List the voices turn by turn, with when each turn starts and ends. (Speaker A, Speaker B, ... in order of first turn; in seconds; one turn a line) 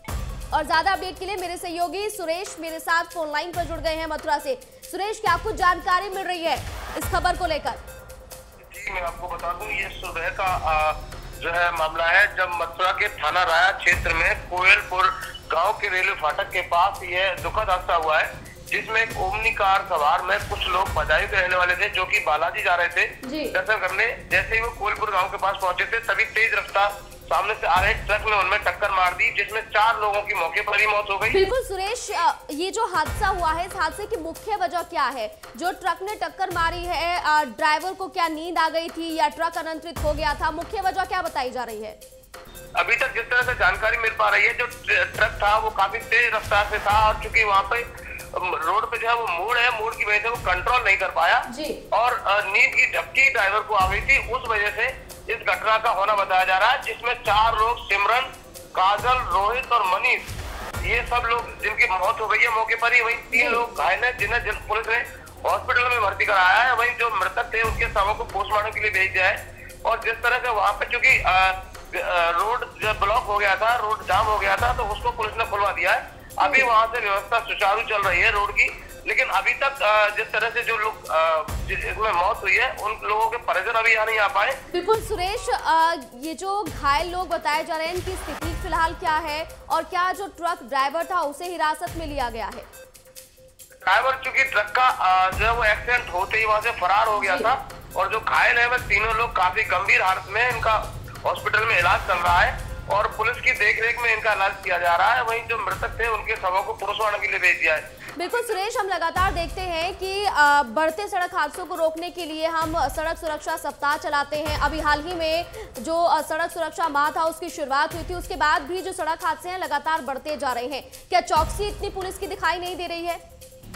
Speaker A: 0.5-7.8
Speaker B: 8.7-31.4
Speaker A: 23.2-23.5
Speaker A: 31.3-42.0
Speaker B: 42.8-60.3
Speaker A: 51.5-51.8
Speaker B: 60.8-84.6
Speaker A: 63.3-63.6
Speaker A: 76.4-76.7
Speaker A: 84.7-92.7
Speaker B: 93.8-107.9
Speaker A: 97.2-97.5
Speaker A: 108.2-123.2